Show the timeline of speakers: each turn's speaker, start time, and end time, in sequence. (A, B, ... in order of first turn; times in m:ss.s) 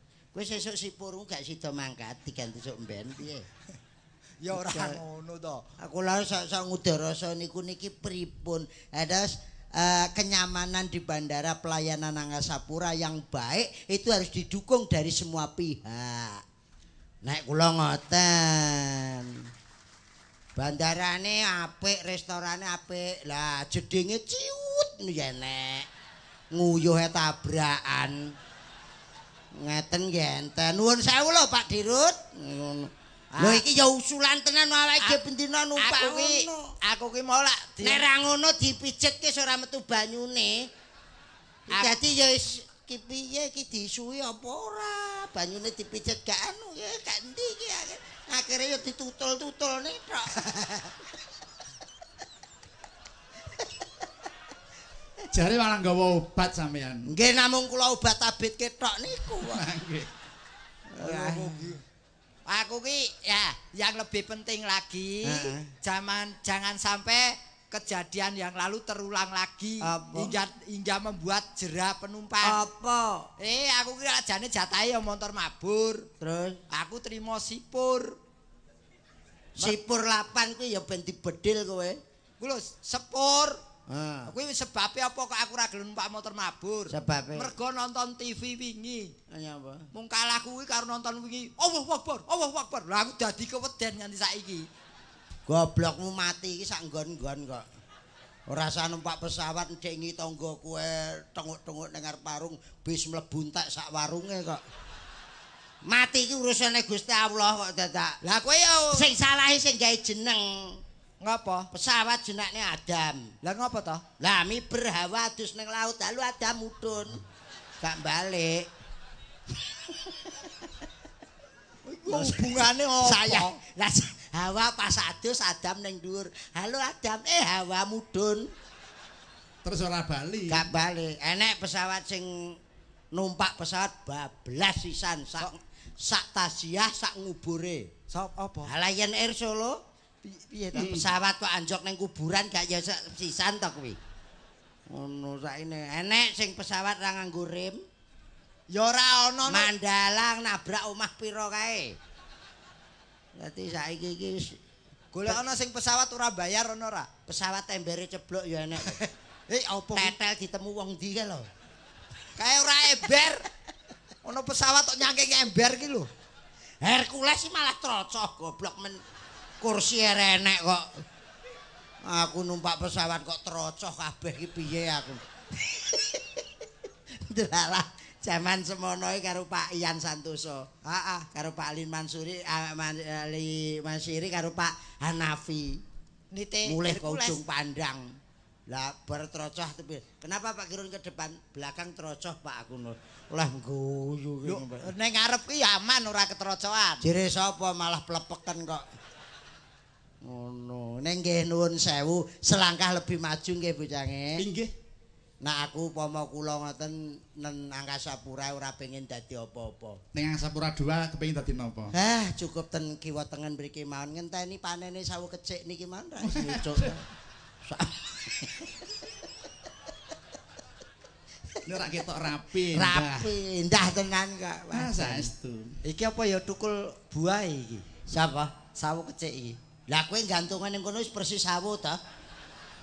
0:00.3-0:03.4 A
0:04.4-0:05.6 B
0:04.5-0:05.0 A
0:05.8-0:16.4 A
0:17.2-0:19.4 A
0:20.6-0:25.9 A
0:26.5-0:28.3 A
0:29.5-0:36.7 A
0:33.3-0:33.6 B
0:35.8-0:38.0 B
0:37.8-0:40.7 A
0:41.7-0:50.9 A
0:41.7-0:42.0 B
0:55.3-0:57.1 C
0:57.0-0:59.6 A
0:59.4-1:00.1 C
1:00.9-1:01.8 A
1:01.0-1:01.8 B
1:02.4-1:12.6 B
1:05.2-1:05.7 A
1:09.8-1:10.3 A
1:12.4-1:13.3 A
1:13.4-1:16.1 B
1:16.2-1:16.6 A
1:16.7-1:18.2 B
1:19.6-1:22.0 A
1:22.4-1:23.6 B
1:23.9-1:24.3 A
1:24.3-1:29.1 B
1:26.9-1:27.5 A
1:29.3-1:29.9 A
1:29.9-1:34.7 B
1:35.5-1:37.6 A
1:38.5-1:44.6 A
1:45.8-1:48.2 A
1:48.2-1:49.1 B
1:48.9-1:50.8 A
1:51.2-1:51.7 B
1:51.7-1:53.3 A
1:53.4-1:54.0 B
1:54.2-1:57.2 A
1:57.8-1:58.6 A
1:59.7-2:00.7 A
2:01.8-2:03.6 B
2:02.1-2:08.5 A
2:09.6-2:10.6 C
2:10.5-2:12.6 A
2:13.1-2:17.9 A
2:18.1-2:18.7 B
2:18.6-2:19.8 A
2:20.2-2:21.0 B
2:20.7-2:24.0 A
2:20.7-2:21.0 C
2:24.9-2:27.8 A
2:28.7-2:29.7 B
2:29.5-2:32.0 A
2:33.4-2:34.5 A
2:35.1-2:37.1 B
2:37.3-2:39.0 A
2:38.8-2:40.1 B
2:39.9-2:41.5 A
2:42.4-2:43.4 B
2:44.2-2:46.1 B
2:46.8-2:49.0 A
2:49.6-2:51.0 A
2:52.0-2:56.4 A
2:57.1-3:00.7 A
3:00.8-3:01.3 B
3:01.3-3:05.8 A
3:06.3-3:07.4 B
3:06.6-3:08.2 A
3:08.7-3:14.9 A
3:14.4-3:17.0 B
3:17.0-3:18.8 A
3:20.2-3:24.4 A
3:24.4-3:24.7 C
3:25.4-3:30.0 A
3:30.1-3:31.9 C
3:31.9-3:37.0 A
3:36.3-3:37.0 C
3:37.7-3:39.1 A
3:41.6-3:43.3 C
3:42.7-3:45.3 A
3:44.7-3:45.8 C
3:45.8-3:47.8 B
3:48.1-3:48.5 A
3:48.7-3:49.6 B
3:49.9-3:52.0 A